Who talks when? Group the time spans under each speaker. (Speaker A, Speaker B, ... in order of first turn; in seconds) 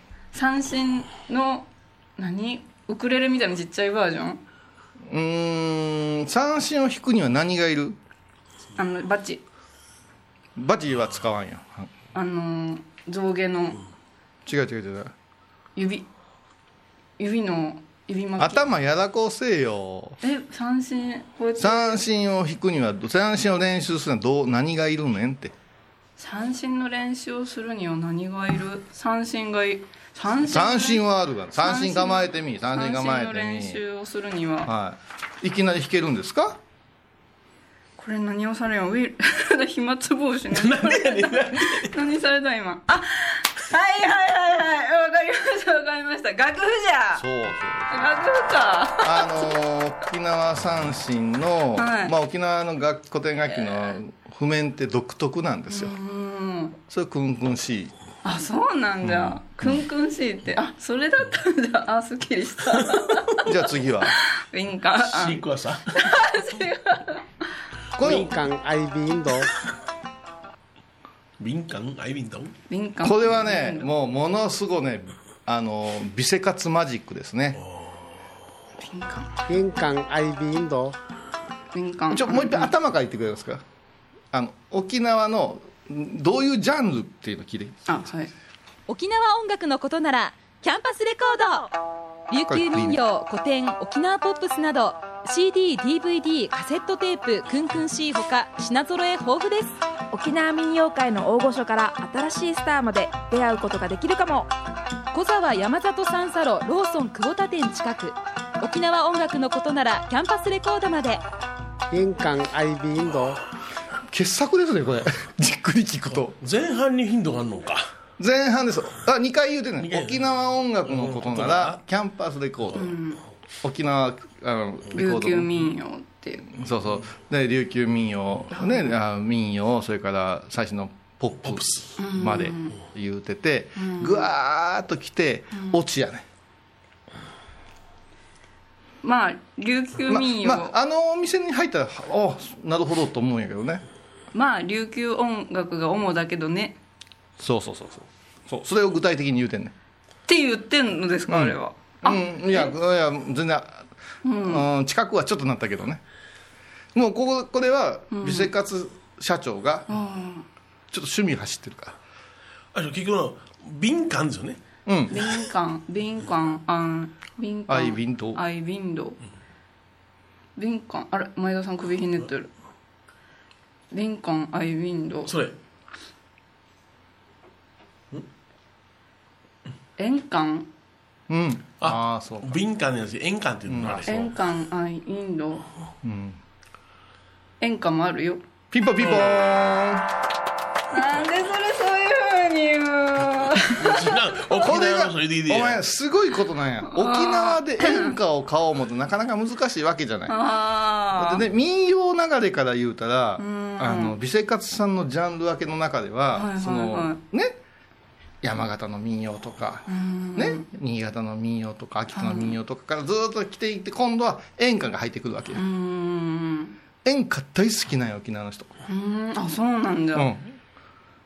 Speaker A: 0.3-4.4, 8.8-9.4, 12.1-13.8, 15.8-16.1, 17.2-18.7, 20.2-22.0, 26.2-34.7, 38.0-47.2, 47.9-49.5, 51.8-52.1, 53.7-54.0, 55.7-56.8, 58.2-63.5, 64.4-67.3, 72.7-73.9, 78.8-79.4, 81.7-82.7, 87.9-88.3, 122.8-123.2, 124.9-126.5, 128.5-128.9, 132.0-132.8, 133.8-134.3, 139.0-140.7, 144.3-146.8, 150.3-152.7, 154.2-154.7, 158.1-158.5, 159.9-160.4, 165.1-169.2, 170.6-172.5, 173.9-175.3, 180.0-180.7, 184.1-185.7, 187.6-188.4, 190.9-194.1, 196.9-198.2, 200.3-201.4, 203.4-204.2, 206.3-207.2, 209.9-210.7, 212.1-212.6, 215.6-216.8, 218.9-220.3
Speaker B: 5.1-8.0, 10.6-11.9, 14.5-15.1, 18.4-20.2, 21.6-25.5, 30.4-33.8, 34.6-36.6, 47.2-48.2, 49.0-56.0, 56.9-57.9, 63.5-64.2, 68.0-68.3, 73.0-77.6, 82.1-83.6, 84.3-88.0, 92.5-93.0, 114.1-116.4, 118.2-122.9, 123.6-125.7, 126.5-136.2, 140.1-143.8, 147.4-149.7, 151.3-153.9, 154.4-156.0, 156.9-159.9, 160.9-162.0, 164.9-165.2, 167.7-168.4, 181.3-182.6, 183.7-184.1, 186.0-186.4, 188.7-190.1, 194.6-200.4, 201.1-207.6, 208.4-215.6, 217.0-218.7, 220.1-220.6
Speaker C: 40.5-41.9, 65.0-66.2, 71.4-72.5, 77.7-78.0, 116.4-117.9, 119.8-121.8, 131.4-132.0, 162.7-164.6, 175.3-175.6, 181.8-184.3, 193.8-195.8
Speaker D: 68.0-69.5, 79.5-81.0, 111.9-113.4
Speaker E: 88.9-91.7, 92.3-99.8, 105.1-111.2
Speaker F: 100.1-104.5